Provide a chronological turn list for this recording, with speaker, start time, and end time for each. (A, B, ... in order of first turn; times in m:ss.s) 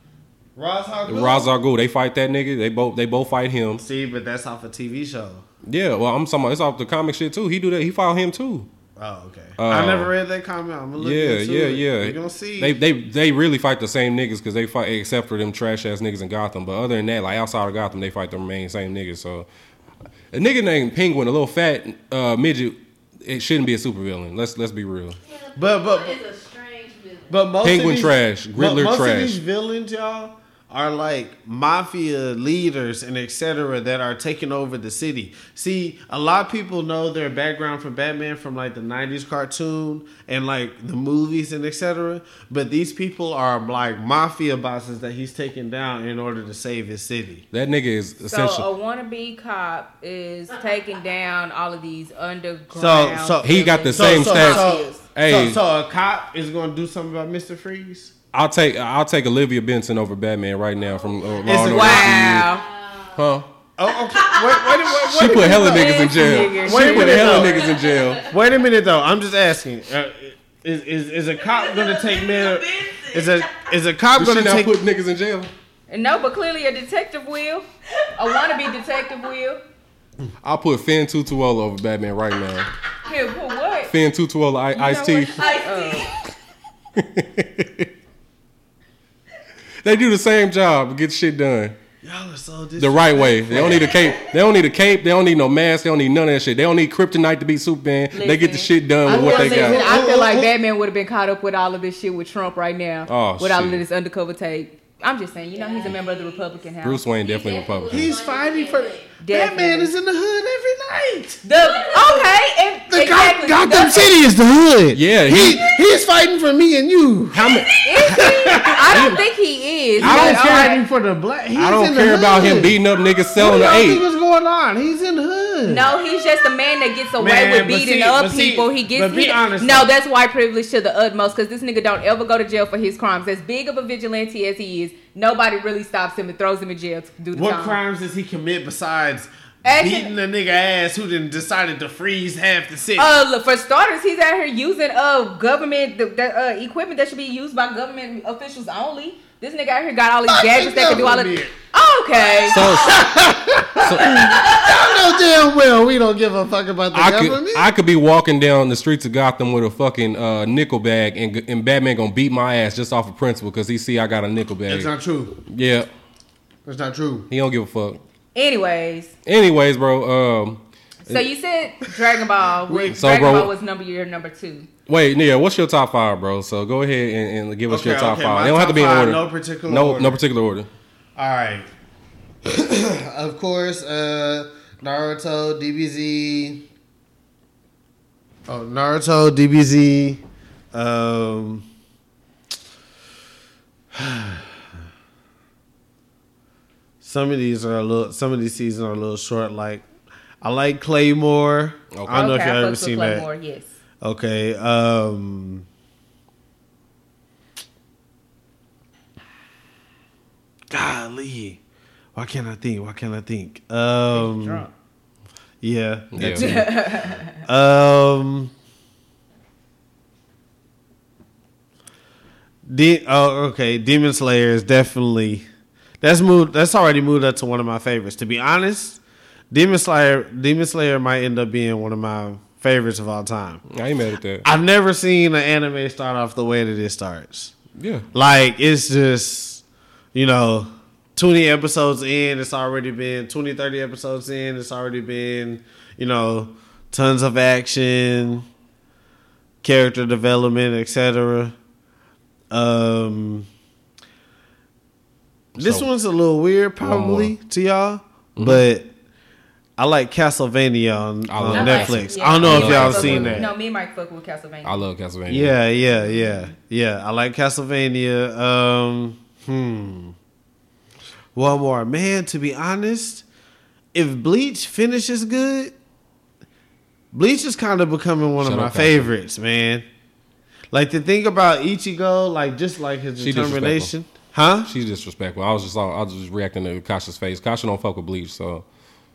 0:00.6-0:01.5 A
0:01.1-0:03.8 B
0:03.8-0:05.4 A
0:05.6-0:08.7 B
0:09.0-0:12.8 A
0:09.6-0:10.1 B
0:11.0-0:19.5 B
0:20.3-0:25.2 B
0:25.2-0:27.4 C
0:25.6-0:26.2 A
0:27.3-0:47.4 A
0:27.6-0:29.4 B
0:47.5-0:48.7 B
0:48.2-0:55.0 D
0:52.7-0:58.1 A
0:53.4-0:55.6 B
0:58.3-1:02.5 B
1:00.8-1:03.2 C
1:01.4-1:02.3 A
1:01.6-1:02.6 D
1:03.2-1:03.5 B
1:03.8-1:07.6 A
1:03.9-1:05.2 C
1:05.0-1:08.3 B
1:05.4-1:07.4 D
1:07.2-1:08.5 C
1:08.3-1:14.7 A
1:11.4-1:13.7 C
1:14.2-1:15.5 B
1:15.9-1:19.6 D
1:18.2-1:18.8 C
1:20.4-1:22.7 B
1:23.0-1:23.9 D
1:23.9-1:25.4 B
1:24.8-1:26.1 D
1:25.3-1:26.2 C
1:27.0-1:27.9 B
1:29.8-1:31.8 B
1:32.0-1:34.0 A
1:32.8-1:40.0 B
1:38.1-1:47.0 D
1:39.1-1:40.5 A
1:43.1-1:43.8 B
1:45.5-1:46.7 C
1:46.8-1:48.1 B
1:47.2-1:49.1 C
1:47.9-1:51.4 A
1:49.2-1:49.9 D
1:51.4-1:54.2 D
1:51.5-1:52.4 C
1:52.9-1:59.2 A
1:54.9-1:55.6 B
1:57.3-1:57.7 B
1:57.4-1:58.7 C
1:57.8-2:00.8 D
1:58.9-1:59.2 B
2:00.0-2:02.8 A
2:00.0-2:00.7 B
2:01.6-2:04.0 B
2:03.4-2:05.9 A
2:05.6-2:17.8 D
2:06.0-2:06.5 C
2:07.2-2:09.9 A
2:17.3-2:23.2 A
2:19.6-2:20.1 D
2:23.0-2:32.6 D
2:30.3-2:31.5 A
2:32.5-2:33.1 B
2:32.6-2:33.0 C
2:32.6-2:37.7 A
2:33.8-2:34.4 B
2:34.1-2:34.9 C
2:36.9-2:44.9 B
2:44.7-2:45.4 A
2:45.5-2:45.9 B
2:46.6-2:47.3 A
2:47.3-2:48.0 B
2:48.4-2:49.1 D
2:49.2-2:51.2 B
2:51.1-2:54.7 D
2:52.7-2:53.0 A
2:52.9-2:53.5 B
2:54.9-3:00.7 B
2:57.7-3:00.2 A
3:01.2-3:01.7 A
3:02.4-3:06.7 A
3:08.5-3:10.2 A
3:10.7-3:11.6 A
3:13.9-3:14.6 A
3:17.0-3:19.9 A
3:20.4-3:23.3 A
3:21.9-3:22.4 B
3:22.1-3:23.7 D
3:24.0-3:25.7 A
3:30.7-3:31.6 A
3:32.2-3:34.7 A
3:34.1-3:34.7 D
3:35.6-3:38.5 A
3:36.1-3:36.7 B
3:36.3-3:37.4 D
3:42.7-3:45.4 A
3:46.0-3:49.0 A
3:49.5-3:53.6 A
3:53.7-3:54.5 B
3:54.4-3:57.5 A
3:57.8-3:58.1 B
3:58.1-3:59.6 A
4:00.1-4:08.5 A
4:09.6-4:11.6 A
4:12.5-4:13.5 A
4:15.6-4:15.9 B
4:15.6-4:18.9 A
4:16.8-4:17.3 B
4:18.4-4:18.7 B
4:19.8-4:23.5 A
4:21.2-4:23.5 B
4:21.5-4:24.8 D
4:21.6-4:21.9 C
4:24.6-4:25.6 B
4:25.3-4:30.2 A
4:25.8-4:26.5 D
4:31.4-4:33.2 A
4:33.9-4:35.7 A
4:37.1-4:39.9 A
4:38.4-4:39.1 B
4:40.7-4:44.7 A
4:43.2-4:43.9 B
4:44.6-4:48.7 B